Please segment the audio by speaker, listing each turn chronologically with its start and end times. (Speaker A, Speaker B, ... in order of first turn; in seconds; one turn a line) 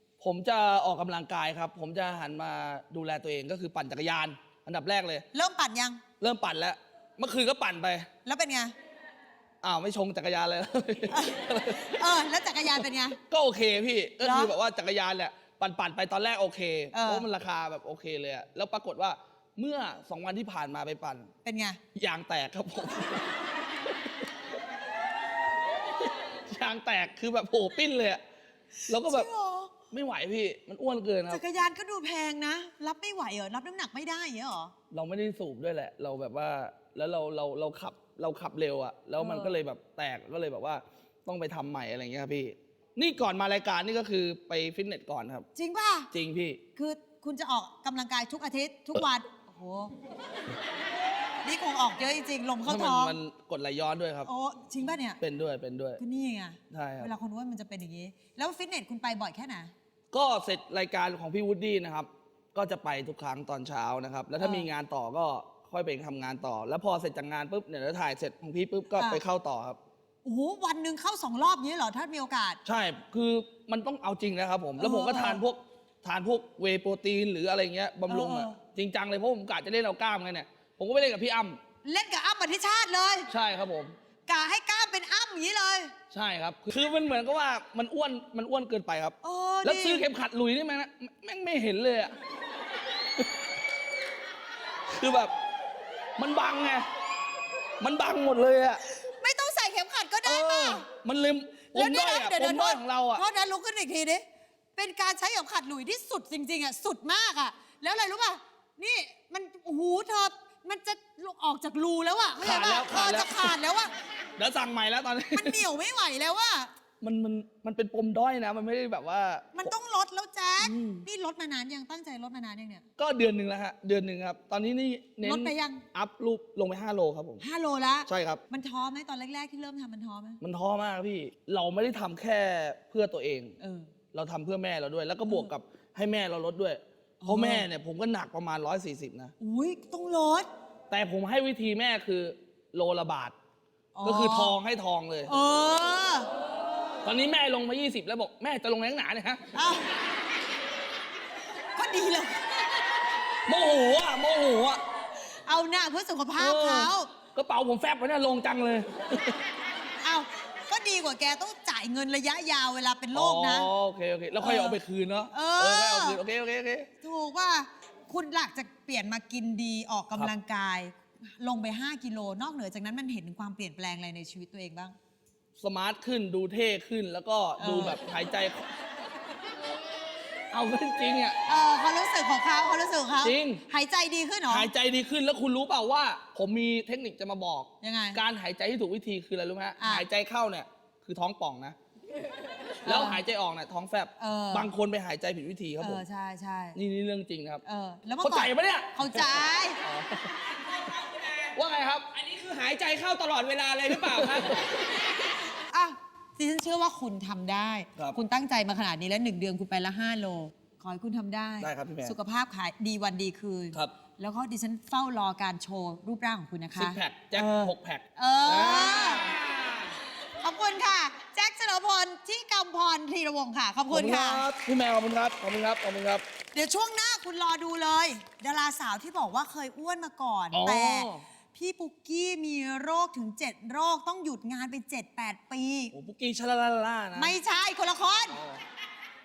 Speaker A: 0.2-5.3
Speaker B: 5.3-6.0
Speaker A: 6.2-8.1
Speaker B: 8.2-8.7
Speaker A: 9.6-12.1
Speaker B: 11.1-13.2
Speaker A: 13.2-21.3
Speaker B: 14.2-14.5
Speaker B: 16.9-17.3
Speaker B: 21.4-21.8
Speaker A: 21.9-23.3
Speaker A: 26.3-28.2
Speaker A: 28.9-29.3
Speaker B: 28.9-29.8
Speaker A: 29.9-31.4
Speaker B: 31.3-34.7
Speaker A: 34.9-45.5
Speaker B: 39.2-39.5
Speaker B: 45.5-46.1
Speaker A: 46.1-46.6
Speaker B: 46.8-49.9
Speaker B: 51.4-53.2
Speaker A: 52.7-54.3
Speaker B: 54.3-55.2
Speaker A: 55.2-56.0
Speaker B: 56.0-59.7
Speaker A: 56.7-57.1
Speaker A: 60.1-69.8
Speaker B: 64.4-64.7
Speaker B: 69.0-69.2
Speaker B: 70.2-72.6
Speaker A: 72.7-81.6
Speaker B: 74.8-75.4
Speaker B: 78.1-78.6
Speaker B: 81.8-83.3
Speaker A: 83.3-84.0
Speaker B: 84.3-85.9
Speaker A: 86.1-92.2
Speaker B: 89.2-90.1
Speaker A: 94.9-95.3
Speaker A: 96.2-96.9
Speaker A: 97.8-98.8
Speaker B: 98.9-100.9
Speaker A: 100.2-103.2
Speaker B: 101.7-104.2
Speaker B: 104.8-113.9
Speaker A: 112.4-113.5
Speaker A: 114.4-115.7
Speaker B: 115.3-116.7
Speaker A: 117.0-119.7
Speaker B: 119.5-122.8
Speaker A: 120.6-121.1
Speaker A: 123.0-127.4
Speaker B: 125.2-125.8
Speaker B: 127.4-130.4
Speaker A: 128.1-128.4
Speaker A: 130.4-133.6
Speaker B: 133.6-133.9
Speaker A: 134.1-139.3
Speaker B: 137.2-137.7
Speaker B: 139.4-140.5
Speaker A: 140.9-143.3
Speaker B: 143.9-144.6
Speaker A: 144.0-145.3
Speaker B: 145.3-146.3
Speaker A: 147.0-149.4
Speaker B: 149.5-149.9
Speaker B: 151.8-152.8
Speaker A: 153.5-154.8
Speaker B: 155.3-157.1
Speaker A: 156.4-159.4
Speaker B: 160.0-163.7
Speaker A: 163.1-166.9
Speaker B: 164.4-164.8
Speaker B: 165.3-166.2
Speaker B: 167.0-174.9
Speaker A: 175.6-178.7
Speaker B: 177.6-178.0
Speaker A: 180.5-181.4
Speaker B: 181.5-184.7
Speaker A: 183.2-183.6
Speaker A: 184.5-191.8
Speaker B: 187.8-188.2
Speaker B: 189.8-190.1
Speaker A: 192.8-196.0
Speaker B: 192.8-193.2
Speaker B: 194.2-194.7
Speaker B: 195.8-196.8
Speaker A: 196.8-197.6
Speaker B: 197.6-199.8
Speaker A: 198.2-200.3
Speaker C: 200.8-201.5
Speaker A: 201.5-202.1
Speaker C: 202.1-204.6
Speaker A: 204.0-204.7
Speaker B: 205.7-219.3
Speaker A: 211.6-212.2
Speaker A: 216.8-219.4
Speaker B: 220.4-224.5
Speaker A: 223.9-226.2
Speaker B: 226.5-235.9
Speaker A: 230.5-231.2
Speaker A: 235.9-237.4
Speaker B: 237.2-238.4
Speaker A: 238.3-238.6